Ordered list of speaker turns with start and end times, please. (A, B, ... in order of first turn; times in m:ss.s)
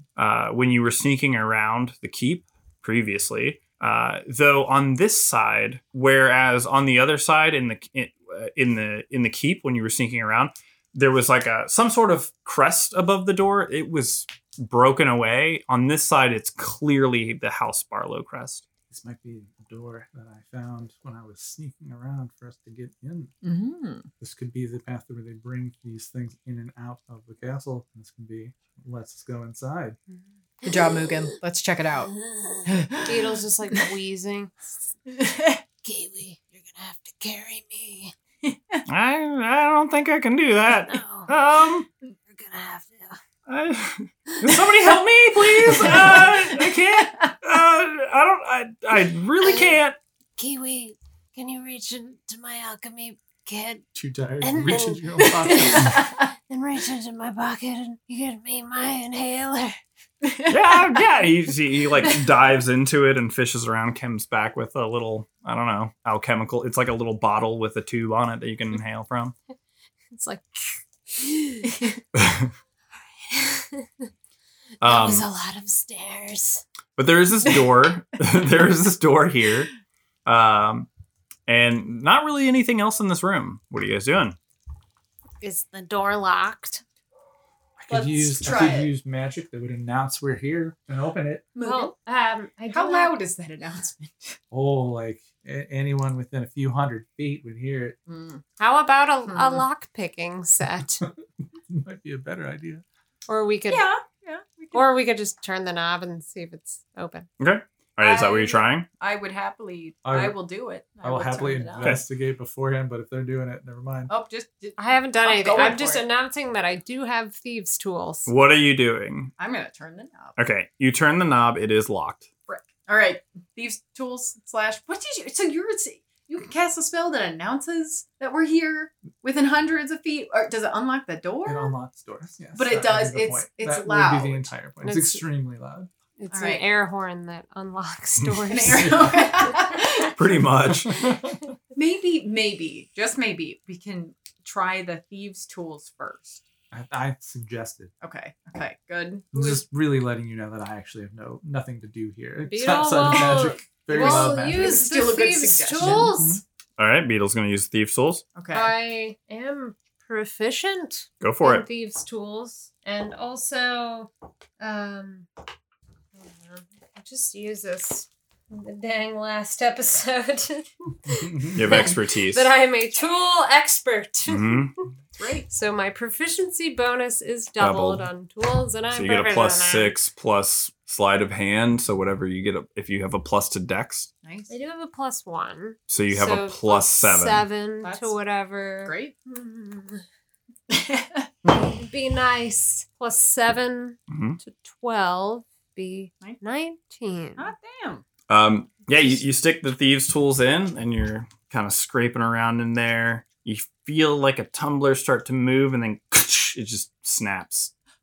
0:00.2-0:18.7 A
0:18.9-0:23.3 B
0:23.4-0:24.1 C
0:24.2-0:30.0 B
0:30.1-0:31.2 D
0:30.7-0:32.1 C
0:32.1-0:34.9 D
0:32.7-0:33.8 C
0:35.1-0:35.6 C
0:35.8-0:38.1 D
0:38.4-0:38.8 C
0:38.9-0:41.9 A
0:40.8-0:41.3 D
0:42.3-0:43.2 D
0:43.5-0:50.0 A
0:44.4-0:44.7 D
0:45.8-0:46.3 C
0:49.4-0:49.7 D
0:50.4-0:53.9 D
0:53.9-0:56.0 B
0:54.4-0:59.8 D
0:55.7-0:56.2 C
1:00.2-1:01.0 C
1:00.5-1:09.4 A
1:10.1-1:11.8 D
1:11.6-1:12.0 C
1:12.1-1:12.5 A
1:13.3-1:14.1 D
1:14.8-1:15.3 A
1:14.8-1:16.6 D
1:17.0-1:19.7 A
1:20.3-1:20.9 A
1:21.5-1:24.4 A
1:25.4-1:26.8 D
1:27.8-1:31.5 B
1:27.9-1:28.9 C
1:31.6-1:31.9 C
1:31.6-1:33.2 D
1:32.7-1:34.4 C
1:34.5-1:38.0 B
1:38.1-1:38.4 C
1:38.6-1:41.0 D
1:39.3-1:39.6 C
1:41.7-1:42.8 B
1:43.3-1:43.9 D
1:43.7-1:45.0 C
1:44.7-1:47.3 D
1:47.4-1:48.9 A
1:48.0-1:52.0 C
1:50.0-1:50.4 B
1:51.0-1:54.1 B
1:54.1-1:56.0 C
1:54.8-1:58.3 D
1:58.3-1:59.3 A
1:59.4-2:00.4 C
2:00.4-2:02.3 A
2:02.5-2:11.7 C
2:11.4-2:15.9 B
2:12.6-2:14.5 C
2:14.8-2:15.2 D
2:16.2-2:20.1 D
2:16.3-2:16.6 C
2:18.5-2:20.1 C
2:18.6-2:19.5 B
2:20.1-2:21.0 A
2:20.7-2:21.4 B
2:21.7-2:26.4 C
2:26.7-2:27.9 B
2:28.0-2:29.6 C
2:29.3-2:34.8 B
2:32.4-2:36.4 D
2:33.9-2:36.3 C
2:35.8-2:36.4 B
2:36.8-2:38.2 A
2:38.4-2:38.7 C
2:38.5-2:45.3 D
2:41.2-2:41.6 A
2:46.2-2:54.7 D
2:51.1-2:51.9 B
2:51.6-2:52.5 A
2:54.3-2:54.8 A
2:55.2-2:55.5 C
2:55.5-3:00.0 D
2:57.6-2:58.1 A
2:58.9-3:04.1 A
3:04.2-3:04.5 C
3:04.5-3:10.0 D
3:05.9-3:07.4 A
3:07.8-3:08.2 C
3:08.8-3:09.1 C
3:10.7-3:11.3 C
3:11.5-3:17.5 D
3:14.1-3:14.4 A
3:17.4-3:18.0 C
3:18.3-3:27.7 A